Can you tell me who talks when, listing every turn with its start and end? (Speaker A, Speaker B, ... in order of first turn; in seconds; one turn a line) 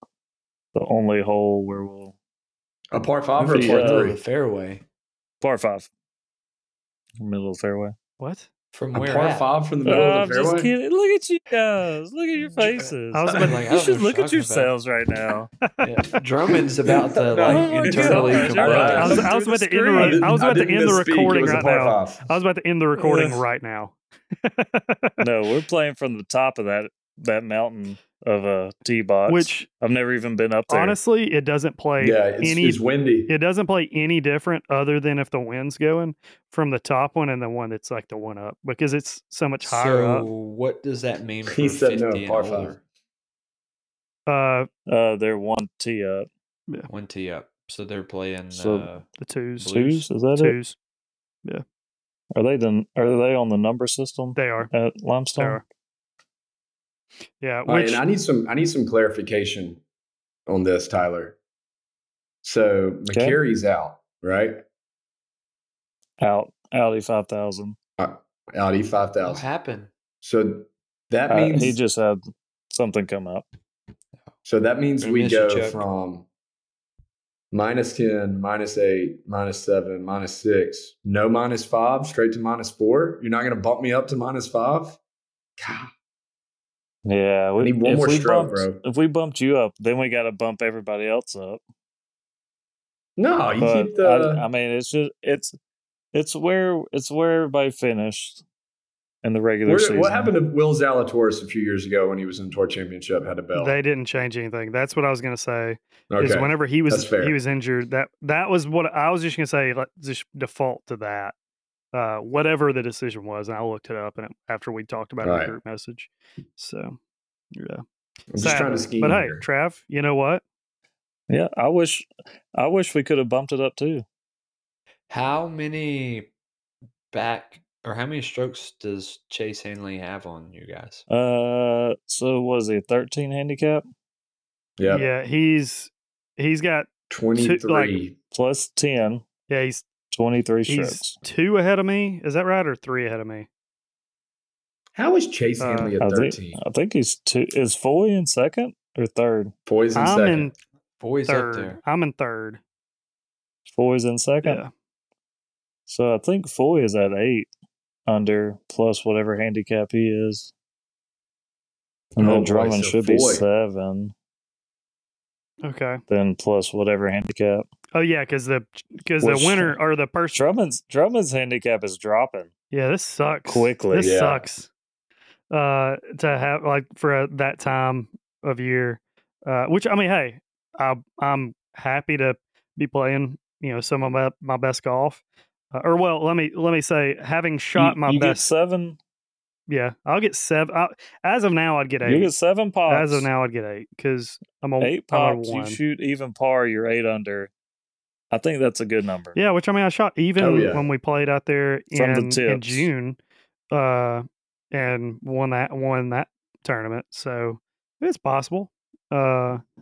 Speaker A: 0.7-2.1
Speaker B: 2.9-4.2
Speaker A: 3.4-4.1
Speaker C: 3.5-4.8
Speaker A: 5.4-5.9
Speaker A: 7.2-8.0
Speaker D: 8.2-8.5
Speaker C: 8.7-9.5
Speaker B: 8.9-10.7
Speaker A: 9.8-15.5
Speaker D: 13.1-13.6
Speaker C: 13.3-14.7
Speaker C: 15.8-19.2
Speaker B: 16.9-22.3
Speaker A: 17.5-20.3
Speaker D: 18.7-25.2
Speaker A: 23.0-23.4
Speaker A: 25.2-31.0
Speaker D: 29.3-29.7
Speaker D: 30.7-40.3
Speaker B: 32.0-33.3
Speaker C: 39.6-42.8
Speaker B: 41.5-42.8
Speaker D: 44.3-44.7
Speaker A: 44.9-46.3
Speaker C: 46.9-49.0
Speaker A: 48.5-48.9
Speaker D: 49.2-50.8
Speaker A: 49.7-50.6
Speaker A: 52.4-55.6
Speaker D: 54.4-54.7
Speaker D: 55.4-55.6
Speaker D: 57.4-58.0
Speaker B: 57.7-59.8
Speaker B: 60.5-61.4
Speaker B: 62.4-64.6
Speaker A: 63.1-63.4
Speaker A: 66.2-67.8
Speaker B: 68.0-69.5
Speaker C: 69.3-69.9
Speaker B: 70.2-71.8
Speaker A: 71.3-73.5
Speaker B: 74.5-76.3
Speaker C: 75.0-75.8
Speaker B: 77.5-85.0
Speaker B: 85.6-85.9
Speaker A: 87.0-91.6
Speaker B: 87.6-88.8
Speaker B: 93.2-94.4
Speaker A: 93.6-95.5
Speaker A: 96.1-98.4
Speaker A: 99.2-100.3
Speaker B: 99.7-103.8
Speaker D: 103.5-111.3
Speaker B: 106.1-107.3
Speaker D: 111.9-117.0
Speaker B: 115.2-115.5
Speaker D: 117.5-117.8
Speaker B: 118.3-119.4
Speaker D: 118.4-120.4
Speaker A: 121.3-124.0
Speaker C: 125.1-126.3
Speaker C: 127.1-131.1
Speaker A: 131.1-133.8
Speaker B: 134.8-135.1
Speaker D: 134.9-138.0
Speaker B: 137.1-138.2
Speaker A: 138.3-139.2
Speaker D: 139.5-139.8
Speaker A: 140.1-141.2
Speaker D: 140.7-143.5
Speaker B: 144.9-146.6
Speaker D: 145.6-145.9
Speaker A: 146.0-149.5
Speaker B: 149.7-150.5
Speaker D: 150.0-150.5
Speaker C: 151.0-151.8
Speaker D: 151.3-152.6
Speaker A: 153.7-154.6
Speaker D: 154.4-154.7
Speaker A: 155.9-157.5
Speaker A: 158.1-160.5
Speaker B: 162.2-163.5
Speaker A: 162.2-164.1
Speaker D: 165.6-166.0
Speaker A: 166.1-167.7
Speaker D: 167.9-170.4
Speaker A: 169.2-169.8
Speaker A: 170.3-172.5
Speaker D: 172.7-174.7
Speaker A: 173.5-174.2
Speaker B: 174.0-174.4
Speaker D: 175.5-185.2
Speaker D: 185.7-188.5
Speaker A: 187.8-189.0
Speaker D: 189.7-192.3
Speaker A: 192.0-193.3
Speaker D: 192.9-195.8
Speaker A: 194.8-197.5
Speaker A: 198.3-199.4
Speaker D: 199.3-203.2
Speaker B: 200.4-200.9
Speaker A: 201.9-202.9
Speaker D: 203.7-209.6